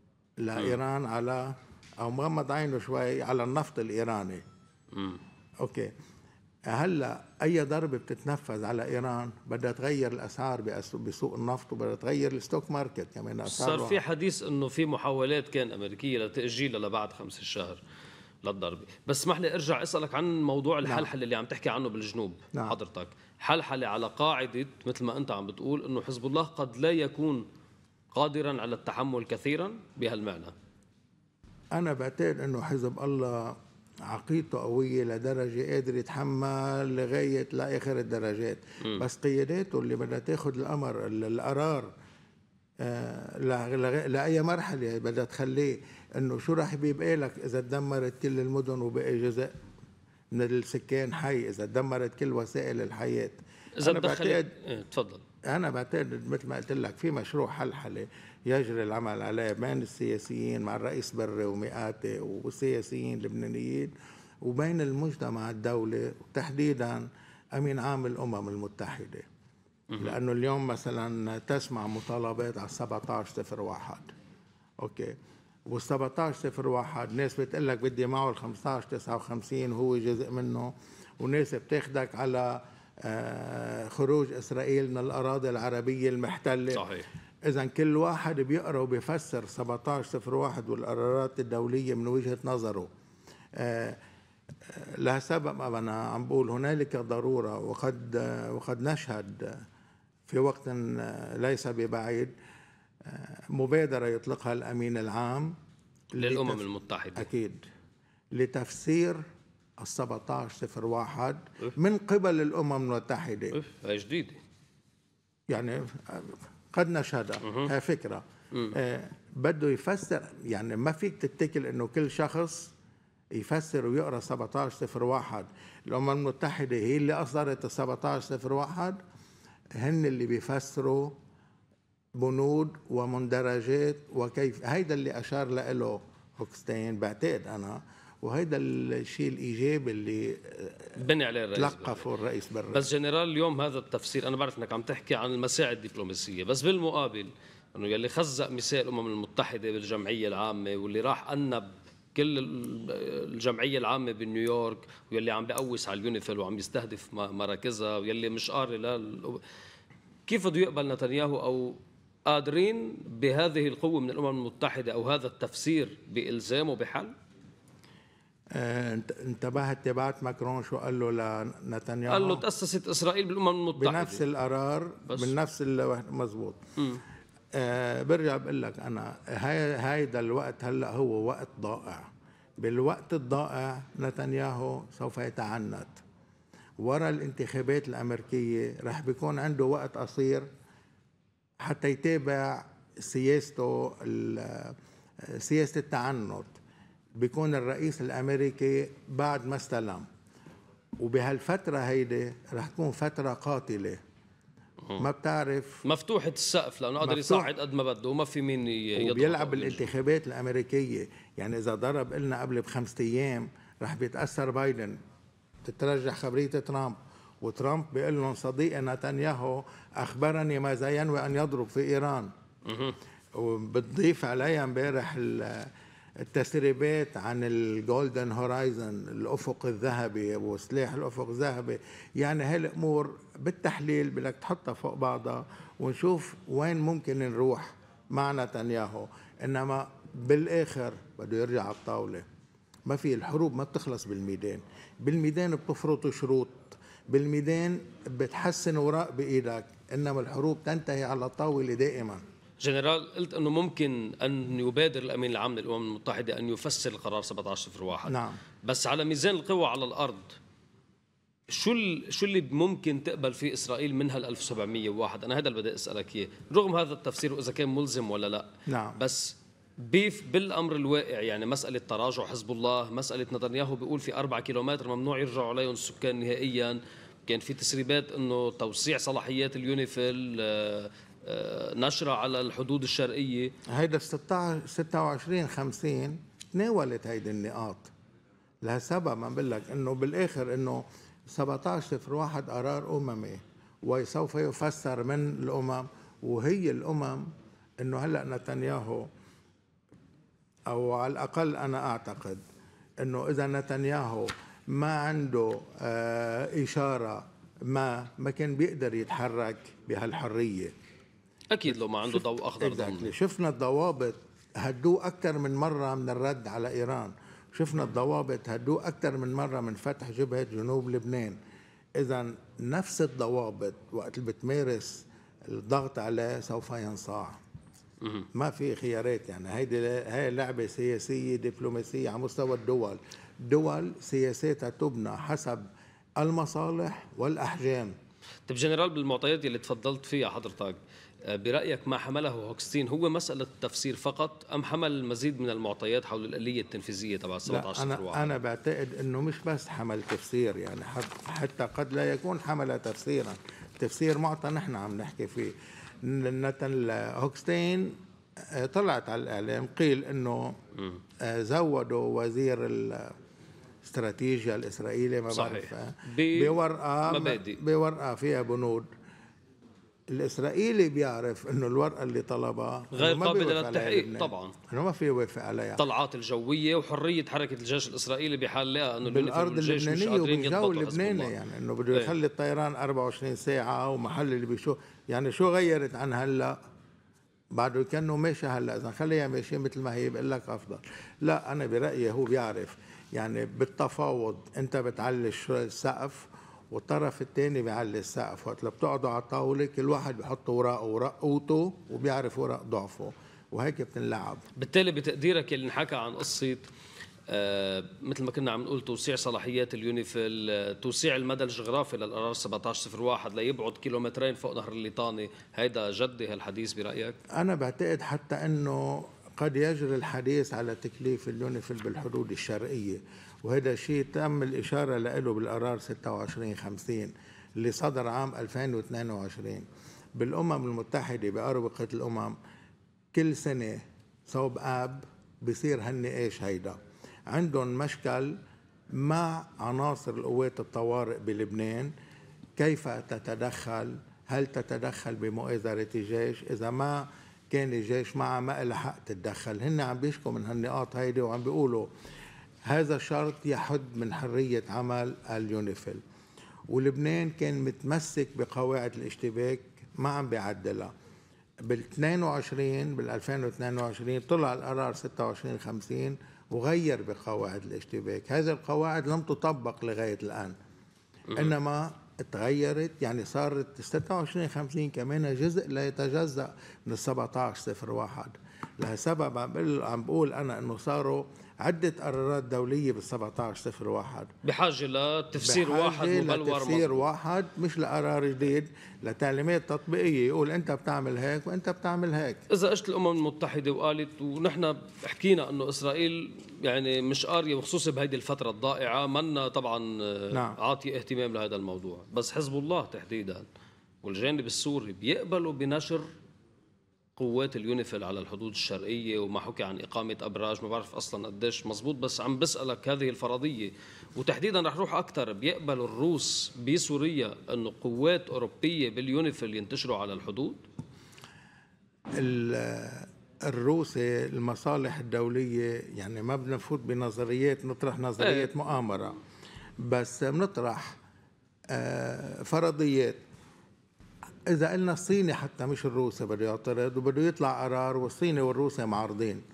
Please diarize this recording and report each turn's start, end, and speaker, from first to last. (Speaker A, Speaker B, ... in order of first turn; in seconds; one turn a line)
Speaker A: 0.4-4.4
Speaker B: 4.9-5.2
Speaker A: 5.6-5.9
Speaker A: 6.7-14.0
Speaker B: 13.4-17.8
Speaker B: 18.4-27.4
Speaker B: 28.1-30.5
Speaker A: 31.7-41.9
Speaker A: 42.8-49.5
Speaker A: 50.3-54.5
Speaker B: 53.8-55.2
Speaker A: 55.4-69.3
Speaker B: 69.9-70.2
Speaker A: 70.0-74.1
Speaker A: 74.8-75.2
Speaker A: 75.7-86.9
Speaker B: 86.7-87.1
Speaker A: 87.4-92.9
Speaker A: 93.5-94.0
Speaker A: 94.7-99.6
Speaker A: 100.3-102.3
Speaker A: 103.0-105.5
Speaker A: 106.1-106.6
Speaker B: 106.2-107.3
Speaker A: 107.1-107.6
Speaker A: 108.3-109.2
Speaker A: 109.8-113.6
Speaker B: 113.5-114.4
Speaker A: 115.5-122.7
Speaker B: 117.4-117.7
Speaker A: 123.3-129.0
Speaker A: 129.8-131.2
Speaker A: 132.1-141.0
Speaker B: 141.0-142.0
Speaker A: 141.5-142.8
Speaker B: 142.7-159.4
Speaker B: 160.3-167.1
Speaker A: 168.5-172.4
Speaker B: 172.1-174.2
Speaker A: 173.8-176.6
Speaker A: 177.5-186.0
Speaker A: 186.8-190.5
Speaker A: 191.6-196.6
Speaker A: 197.2-200.1
Speaker A: 201.0-204.0
Speaker A: 205.0-205.8
Speaker B: 205.8-209.9
Speaker A: 207.0-207.5
Speaker A: 208.9-215.0
Speaker A: 215.6-222.3
Speaker B: 222.7-222.9
Speaker A: 223.3-242.2
Speaker A: 242.8-252.2
Speaker B: 252.6-260.4
Speaker A: 258.1-258.4
Speaker B: 261.5-283.5
Speaker A: 268.7-269.0
Speaker A: 283.7-287.9
Speaker A: 288.6-299.1
Speaker A: 300.7-302.4
Speaker A: 303.0-310.7
Speaker B: 311.5-313.1
Speaker A: 312.1-321.4
Speaker A: 321.9-327.4
Speaker A: 328.3-335.6
Speaker A: 336.2-337.9
Speaker B: 338.5-348.3
Speaker A: 347.5-360.6
Speaker A: 361.2-363.1
Speaker A: 363.8-368.9
Speaker B: 365.3-367.6
Speaker A: 370.1-375.8
Speaker B: 372.9-374.5
Speaker B: 375.8-381.3
Speaker A: 379.0-386.6
Speaker A: 387.5-404.4
Speaker B: 404.6-406.7
Speaker B: 407.3-417.2
Speaker A: 417.3-432.3
Speaker A: 433.1-436.8
Speaker A: 437.3-438.4
Speaker A: 438.9-441.9
Speaker A: 442.6-451.9
Speaker A: 452.6-456.0
Speaker A: 456.7-460.9
Speaker A: 461.6-470.5
Speaker A: 471.3-484.3
Speaker B: 484.4-487.1
Speaker A: 485.4-492.4
Speaker B: 492.5-503.4
Speaker A: 500.3-500.6
Speaker B: 504.0-506.1
Speaker B: 507.2-520.6
Speaker A: 522.1-529.2
Speaker B: 528.2-528.5
Speaker A: 529.8-531.0
Speaker A: 531.7-533.2
Speaker A: 534.5-539.4